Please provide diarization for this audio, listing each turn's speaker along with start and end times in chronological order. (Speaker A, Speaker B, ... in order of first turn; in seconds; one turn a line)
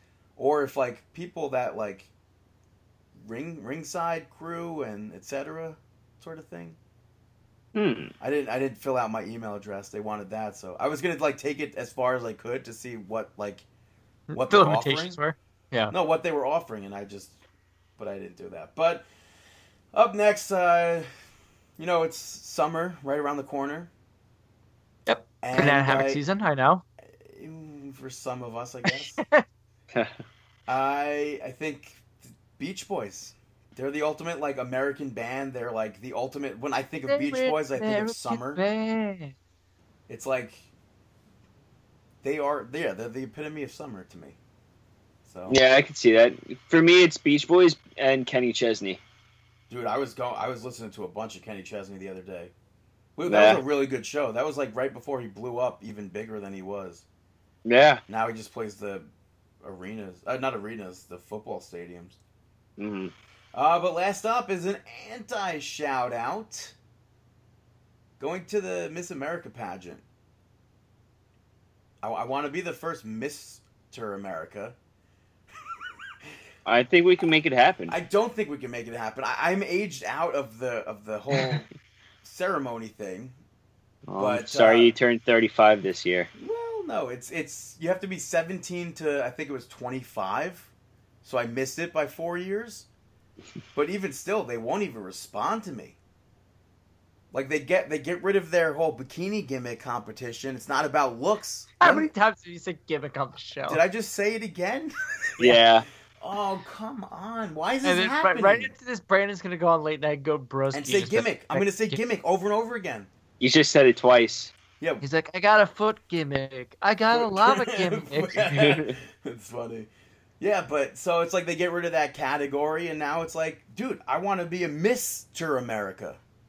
Speaker A: 0.4-2.1
Speaker A: 3.2-6.8
Speaker B: 7.8-8.1
Speaker A: 8.2-13.7
Speaker C: 14.3-15.9
Speaker A: 14.3-15.2
Speaker A: 15.9-17.4
Speaker A: 18.0-19.1
Speaker A: 19.9-21.1
Speaker A: 21.8-23.9
Speaker C: 25.1-26.8
Speaker A: 25.4-26.2
Speaker A: 27.1-29.2
Speaker C: 28.9-29.4
Speaker A: 30.7-38.6
Speaker C: 37.1-39.4
Speaker A: 40.1-40.6
Speaker A: 42.2-44.4
Speaker A: 45.3-45.6
Speaker B: 45.5-49.0
Speaker A: 49.7-52.5
Speaker A: 53.2-57.0
Speaker B: 53.3-53.6
Speaker B: 57.7-58.0
Speaker A: 58.1-59.1
Speaker A: 59.6-62.2
Speaker B: 62.8-63.1
Speaker A: 63.5-66.8
Speaker A: 68.2-70.0
Speaker A: 72.0-74.8
Speaker B: 76.7-78.0
Speaker A: 77.9-81.7
Speaker A: 82.2-83.4
Speaker B: 84.1-86.3
Speaker A: 84.2-85.0
Speaker A: 86.4-90.7
Speaker A: 91.2-92.9
Speaker A: 93.8-96.0
Speaker A: 97.3-102.1
Speaker C: 101.8-103.8
Speaker A: 103.7-105.6
Speaker B: 105.4-105.9
Speaker A: 106.2-108.7
Speaker C: 107.8-112.0
Speaker A: 110.7-113.1
Speaker B: 113.4-114.5
Speaker C: 115.0-118.6
Speaker A: 117.1-119.9
Speaker B: 118.5-119.0
Speaker A: 120.4-126.2